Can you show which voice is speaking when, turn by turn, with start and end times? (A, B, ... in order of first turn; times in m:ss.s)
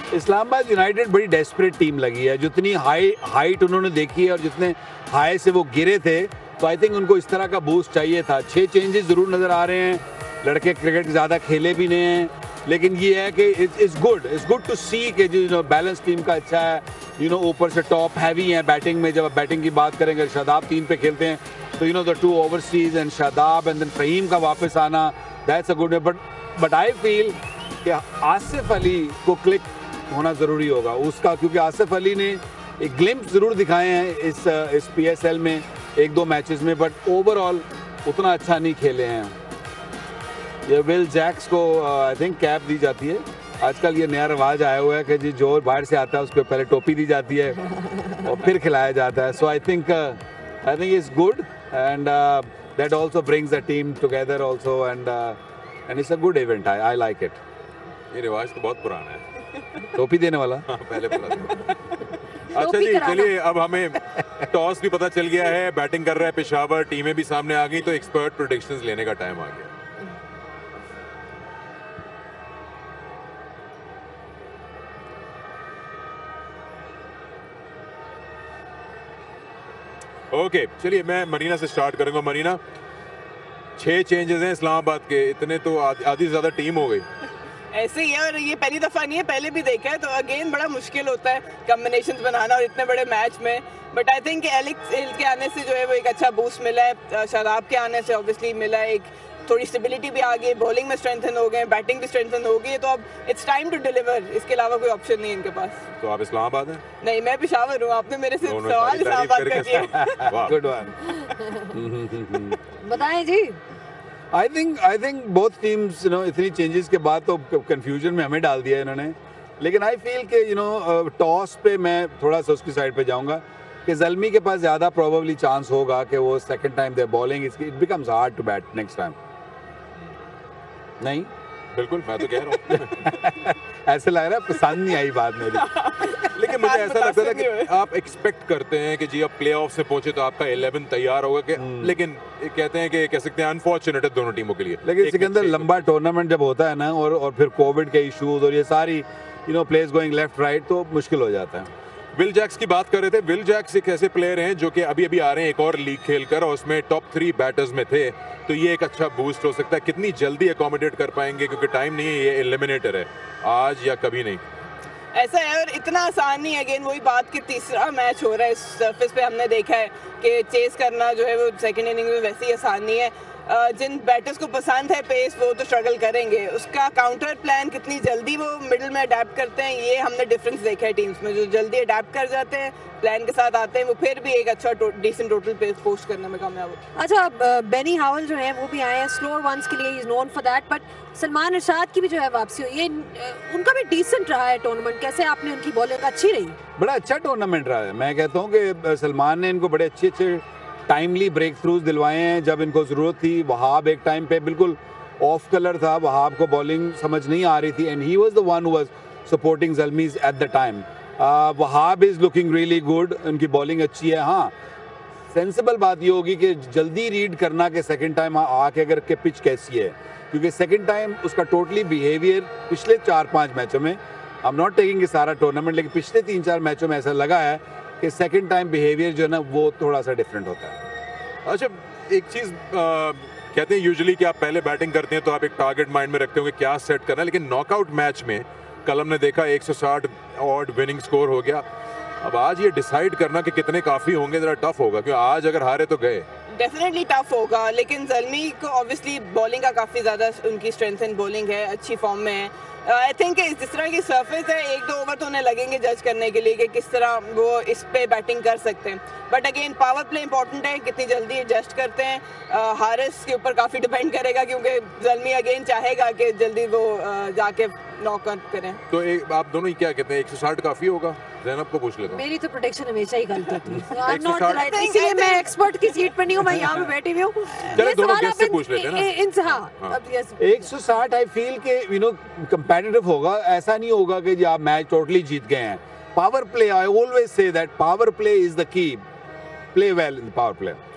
0:00.1-0:39.4 A
0:40.7-0:47.6 A
0:48.2-0:57.4 A
0:58.1-0:59.2 B
1:00.0-1:00.7 A
1:00.7-1:01.7 B
1:02.5-1:09.7 B
1:02.6-1:03.3 C
1:20.3-1:22.6 B
1:23.8-1:27.1 B
1:27.7-1:45.8 D
1:46.0-1:46.8 B
1:47.0-1:50.3 D
1:48.4-1:50.6 B
1:50.2-1:51.0 A
1:51.7-1:52.6 A
1:52.7-1:53.6 C
1:54.3-2:09.2 A
2:11.0-2:11.3 A
2:11.7-2:13.2 B
2:12.7-2:15.7 A
2:15.6-2:17.7 D
2:16.2-2:25.7 B
2:21.6-2:22.0 A
2:24.8-2:31.7 A
2:32.2-2:44.4 B
2:45.2-3:06.8 D
3:07.0-3:16.6 C
3:16.8-3:34.5 A
3:35.3-3:50.8 A
3:51.5-4:01.6 B
4:02.2-4:06.3 B
4:06.5-4:28.8 D
4:28.9-4:32.2 B
4:32.1-4:40.7 C
4:34.0-4:34.7 B
4:34.4-4:36.1 D
4:37.7-4:40.0 B
4:40.4-4:49.0 A
4:49.7-4:50.8 A